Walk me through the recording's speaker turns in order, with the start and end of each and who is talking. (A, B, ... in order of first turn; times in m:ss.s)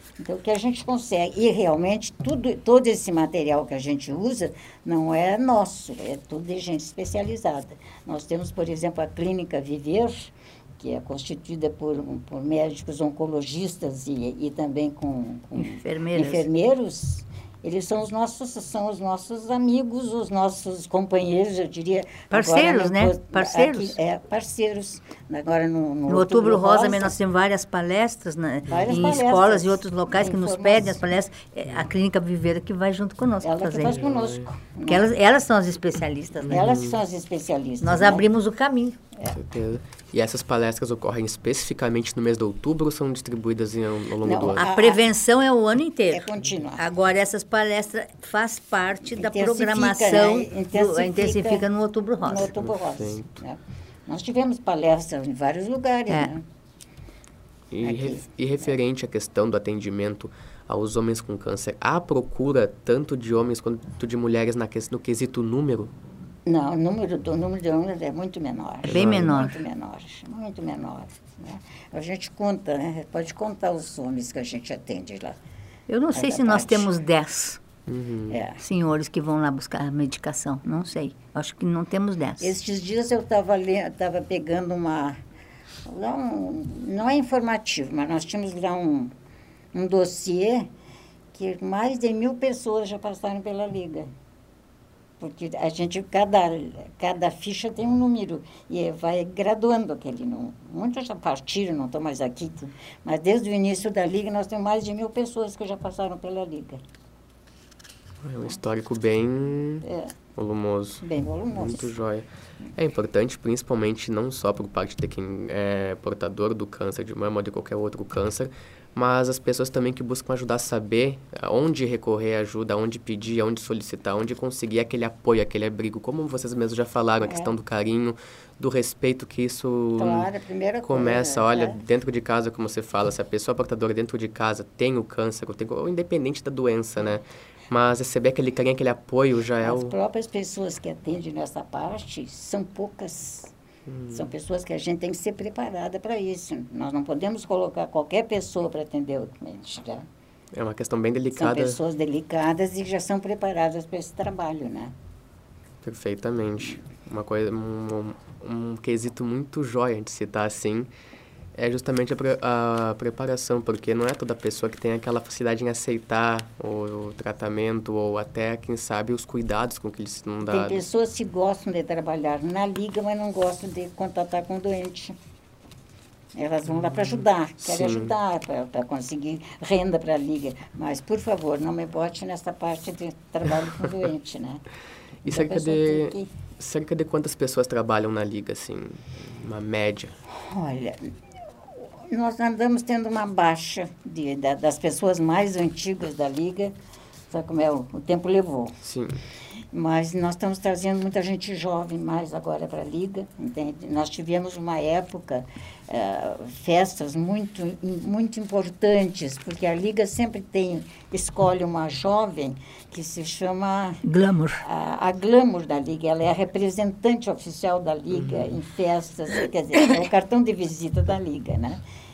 0:00.2-0:27.1 A
0:15.6-0:16.4 B
0:22.3-0:24.0 B
0:26.1-0:34.0 B
0:28.7-0:31.1 A
0:33.4-0:35.1 A
0:33.8-0:34.5 C
0:34.9-0:36.6 B
0:36.4-0:38.3 A
0:36.5-0:37.0 C
0:37.8-0:39.0 B
0:39.3-0:44.6 C
0:44.2-0:45.1 A
0:44.5-0:52.5 B
0:46.1-0:46.8 A
0:49.1-0:51.7 A
0:52.2-0:56.4 A
0:52.6-0:53.3 C
0:57.7-1:05.9 C
0:57.8-0:58.2 A
1:06.4-1:15.4 A
1:08.8-1:09.4 C
1:08.9-1:09.6 B
1:15.9-1:17.6 B
1:16.1-1:16.9 A
1:17.9-1:18.4 C
1:18.3-1:18.6 A
1:18.6-1:22.5 B
1:22.4-1:25.2 A
1:25.8-1:29.1 A
1:29.7-1:30.7 A
1:31.3-1:34.1 A
1:35.2-1:46.8 A
1:48.2-1:49.8 C
1:49.8-1:50.1 A
1:50.4-2:10.3 C
1:51.0-1:51.9 A
2:07.2-2:07.5 A
2:10.0-2:11.8 A
2:10.8-2:19.9 C
2:19.6-2:23.5 A
2:23.9-2:24.3 C
2:24.1-2:30.0 A
2:30.5-2:31.8 C
2:31.3-2:34.9 A
2:35.8-2:40.9 C
2:41.5-2:50.8 C
2:50.4-2:55.2 A
2:56.3-3:04.6 A
2:56.8-2:58.1 C
3:05.2-3:10.2 C
3:05.2-3:06.3 A
3:10.3-3:11.2 A
3:11.7-3:16.7 A
3:17.3-3:18.8 A
3:18.8-3:19.2 C
3:19.7-3:34.0 A
3:34.0-3:34.6 B
3:34.6-3:41.8 A
3:38.1-3:38.5 C